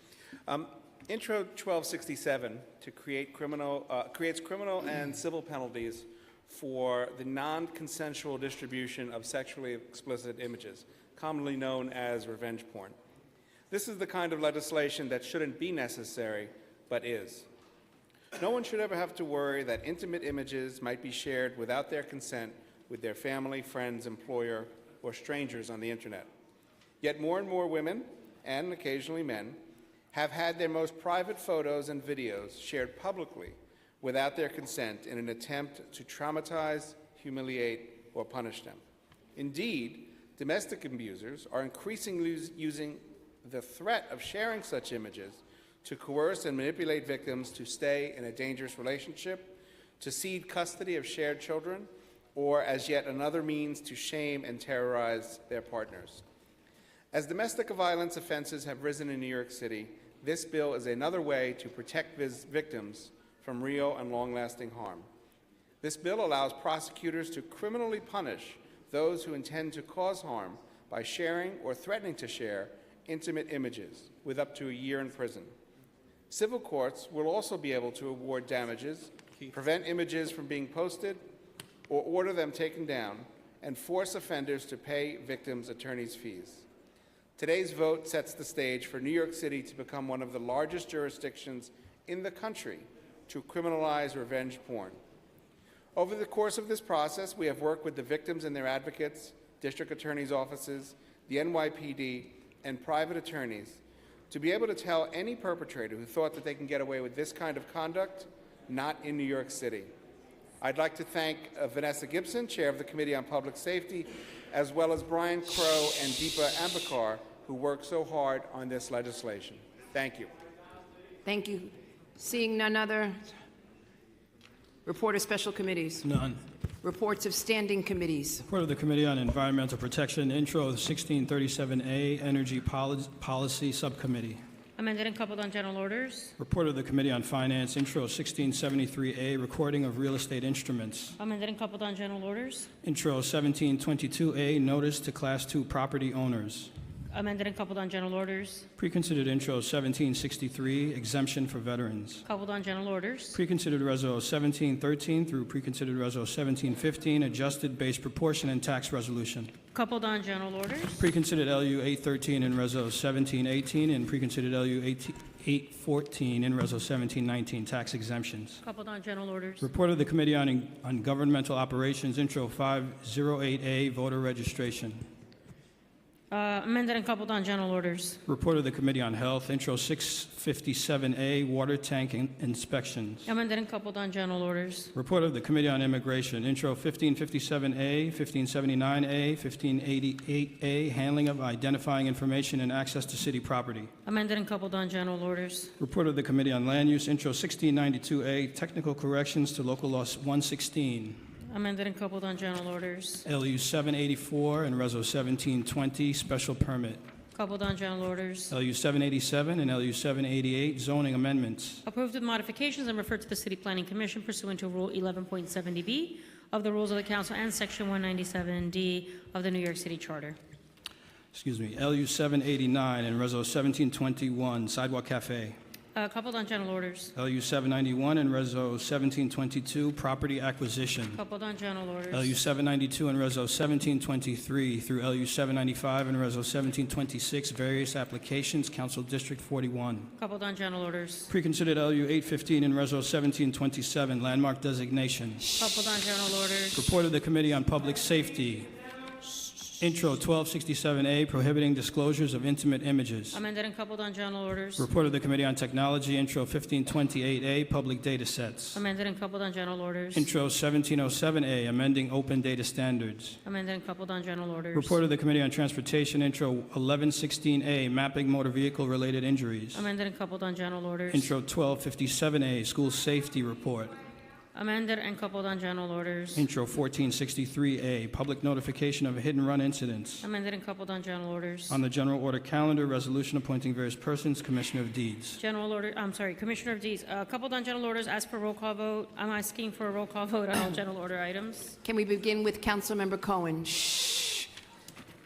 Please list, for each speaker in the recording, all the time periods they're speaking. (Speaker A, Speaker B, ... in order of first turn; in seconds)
Speaker A: 0.5-13.0, 13.7-17.5, 18.3-26.3, 27.0-29.6, 30.1-38.8, 39.3-56.2, 57.1-65.1, 65.8-75.5, 76.3-81.2, 81.9-86.7, 87.4-95.0, 95.9-109.9, 110.6-120.3
Speaker B: 121.2-123.3, 124.8-126.0, 126.8-128.4, 291.8-294.4
Speaker C: 126.0-126.4, 128.4-134.4, 136.4-141.2, 142.8-146.7, 148.8-152.2, 153.3-159.5, 161.0-168.6, 169.6-175.0, 178.3-183.3, 184.9-193.9, 195.8-201.2, 203.2-207.0, 208.5-211.8, 221.3-225.6, 227.2-231.2, 232.1-240.1, 241.3-245.5, 246.8-248.7, 249.8-253.4, 254.8-258.8, 260.1-263.4, 264.7-269.9, 271.1-273.9, 276.4-280.3, 281.7-285.4
Speaker D: 134.8-136.3, 141.2-142.7, 147.1-148.7, 152.2-153.4, 159.7-161.1, 168.6-169.7, 176.3-178.2, 183.2-184.9, 194.1-195.7, 201.5-203.2, 207.3-208.5, 211.9-220.4, 225.9-227.1, 231.1-232.3, 240.2-241.3, 245.6-246.8, 253.3-254.9, 258.7-260.3, 263.4-265.0, 269.7-271.3, 274.5-276.4, 280.2-281.8, 285.4-291.8